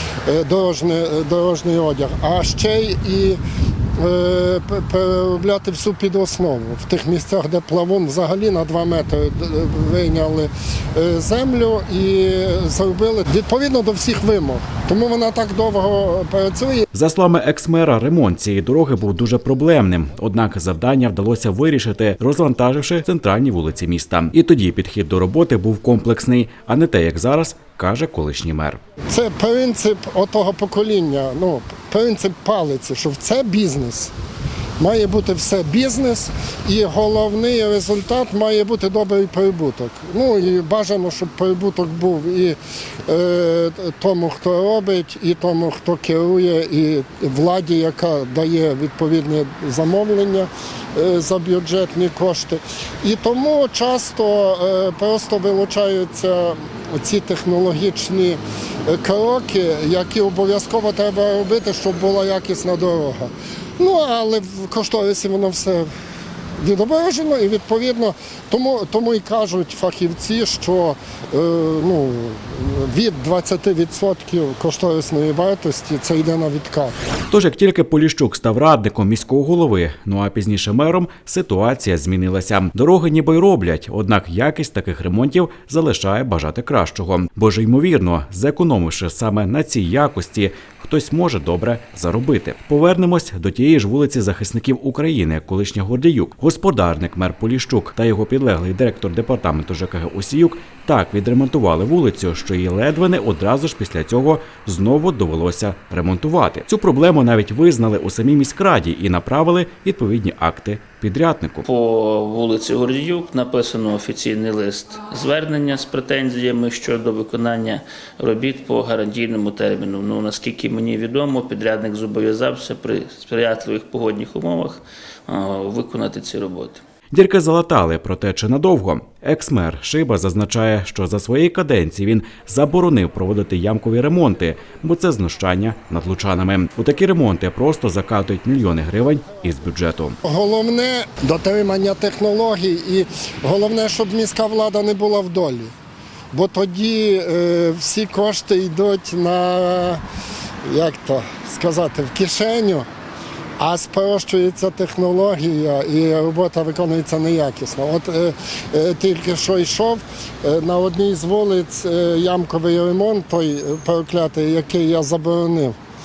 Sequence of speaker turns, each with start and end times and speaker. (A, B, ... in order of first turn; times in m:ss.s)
0:00.2-0:03.4 A
0:04.0-0:16.8 A
0:16.9-0:28.8 B
0:29.1-0:34.1 A
0:34.8-1:05.9 A
1:06.6-1:16.9 A
1:17.3-1:51.6 B
1:51.6-2:06.8 C
2:07.1-2:20.2 B
2:20.2-2:25.7 A
2:26.3-2:30.0 A
2:30.6-2:32.9 A
2:33.6-2:45.8 A